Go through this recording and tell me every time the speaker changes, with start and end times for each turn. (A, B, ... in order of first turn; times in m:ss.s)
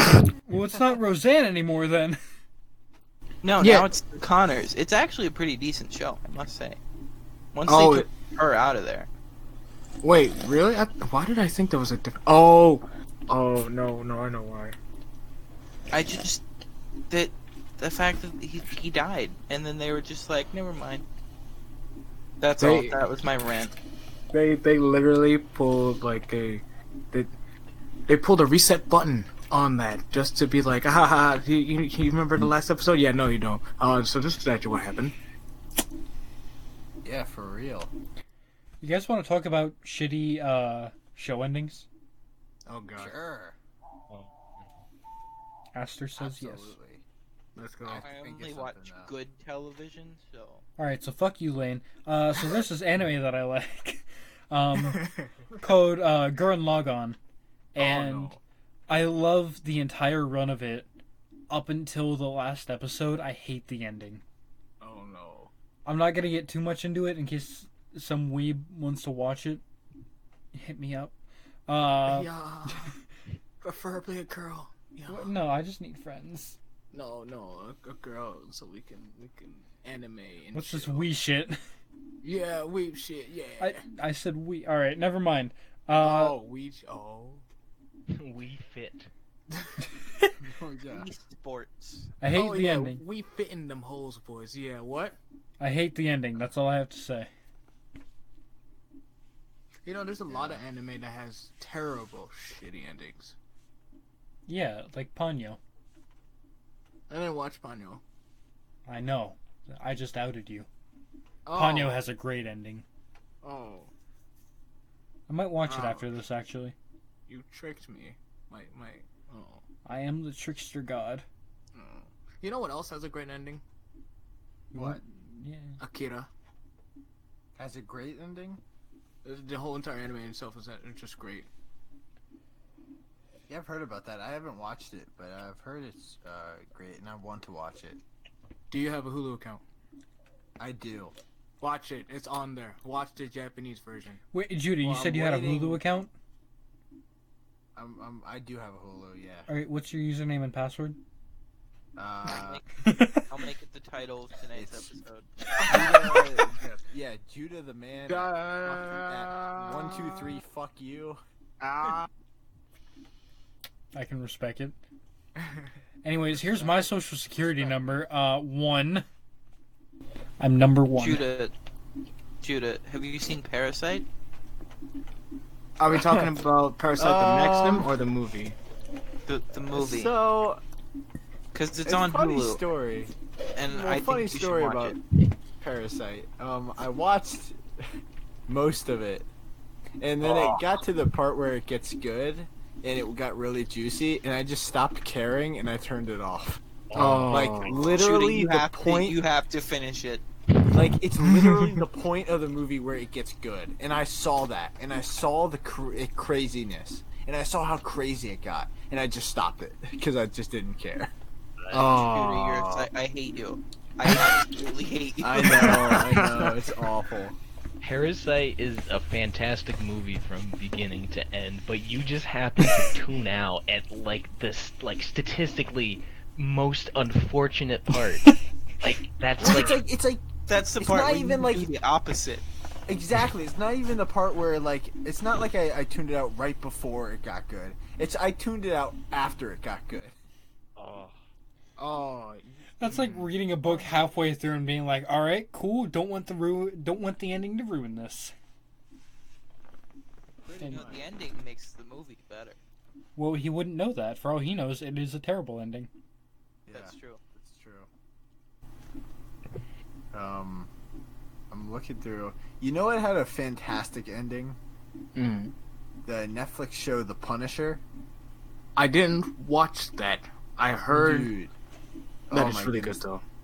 0:00.4-0:02.2 A
0:03.4-0:06.8 B
0:03.6-0:03.9 C
0:07.5-0:09.1 B
0:07.6-0:08.1 C
0:10.0-0:14.8 C
0:15.9-0:16.4 B
0:17.1-0:21.0 B
0:22.4-0:23.7 B
0:22.6-0:23.0 C
0:24.3-0:27.3 C
0:28.1-0:35.1 C
0:37.0-0:37.9 D
0:38.8-0:41.9 A
0:42.7-0:43.2 C
0:43.0-0:43.6 D
0:44.1-0:44.7 E
0:45.7-0:46.8 A
0:46.2-0:47.0 D
0:47.6-0:48.0 C
0:47.8-0:49.1 D
0:48.0-0:50.6 B
0:50.8-0:55.0 A
0:54.7-0:55.6 C
0:55.6-0:57.2 A
0:57.7-0:58.4 A
0:57.8-0:58.4 C
0:58.9-1:00.9 A
1:01.5-1:04.2 A
1:04.8-1:05.5 C
1:05.8-1:09.6 A
1:10.5-1:11.1 A
1:11.7-1:12.9 A
1:12.0-1:13.0 C
1:13.6-1:15.3 C
1:15.1-1:16.6 A
1:16.9-1:21.1 C
1:20.5-1:21.6 A
1:22.2-1:23.8 C
1:23.6-1:26.4 A
1:26.0-1:27.4 C
1:28.1-1:29.1 E
1:29.5-1:29.8 C
1:30.4-1:31.1 D
1:30.9-1:32.1 B
1:32.2-1:33.0 A
1:32.3-1:35.2 C
1:35.6-1:37.3 A
1:39.8-1:43.3 C
1:40.3-1:40.6 D
1:44.5-1:45.6 A
1:47.1-1:48.0 C
1:48.8-1:50.7 A
1:51.4-1:52.0 C
1:51.5-1:52.8 A
1:53.4-1:53.9 C
1:55.3-1:56.7 A
1:55.6-1:56.2 C
1:57.3-1:59.6 C
1:59.8-2:01.2 A
2:01.7-2:03.6 C
2:04.7-2:05.8 A
2:04.7-2:05.0 D
2:05.8-2:06.3 C
2:07.5-2:08.6 D
2:09.2-2:11.5 C
2:13.5-2:18.0 D
2:18.7-2:19.6 C
2:20.6-2:21.2 D
2:21.6-2:24.2 C
2:24.3-2:26.1 A
2:24.8-2:25.8 C
2:24.8-2:25.8 D
2:27.7-2:29.5 D
2:29.5-2:31.0 A
2:32.0-2:32.6 D
2:32.4-2:32.6 B
2:32.8-2:33.2 A
2:33.3-2:35.3 B
2:34.5-2:34.9 D
2:35.6-2:41.2 D
2:38.1-2:40.4 C
2:41.6-2:42.1 C
2:43.9-2:44.8 A
2:45.4-2:45.7 C
2:46.0-2:49.0 A
2:46.3-2:46.9 C
2:50.4-2:51.2 A
2:51.0-2:51.5 B
2:52.4-2:54.1 B
2:55.8-2:58.6 C
2:57.0-2:57.9 D
2:59.3-3:00.1 B
2:59.7-3:00.6 D
3:01.5-3:02.6 B
3:01.8-3:03.1 D
3:03.5-3:05.0 B
3:03.7-3:07.9 D
3:08.5-3:09.3 D
3:10.0-3:16.6 D
3:10.2-3:10.6 C
3:16.9-3:18.0 E
3:16.9-3:17.9 C
3:17.2-3:19.2 D
3:18.0-3:20.2 B
3:20.7-3:31.1 D
3:21.2-3:21.7 C
3:31.7-3:32.9 C
3:32.0-3:36.0 B
3:35.2-3:37.4 D
3:35.4-3:36.7 C
3:37.8-3:49.8 E
3:49.4-3:51.7 D
3:50.5-3:52.5 B
3:52.9-4:00.1 D
4:00.8-4:01.2 E
4:01.8-4:03.9 C
4:02.8-4:08.3 A
4:10.4-4:11.3 D
4:10.6-4:12.6 B
4:13.2-4:15.9 A
4:16.6-4:17.9 D
4:16.7-4:17.2 B
4:20.1-4:20.7 D
4:21.5-4:24.6 D
4:25.1-4:25.5 C
4:26.0-4:27.8 D
4:28.8-4:31.3 C
4:30.9-4:31.5 D
4:32.3-4:33.0 D
4:32.3-4:33.2 C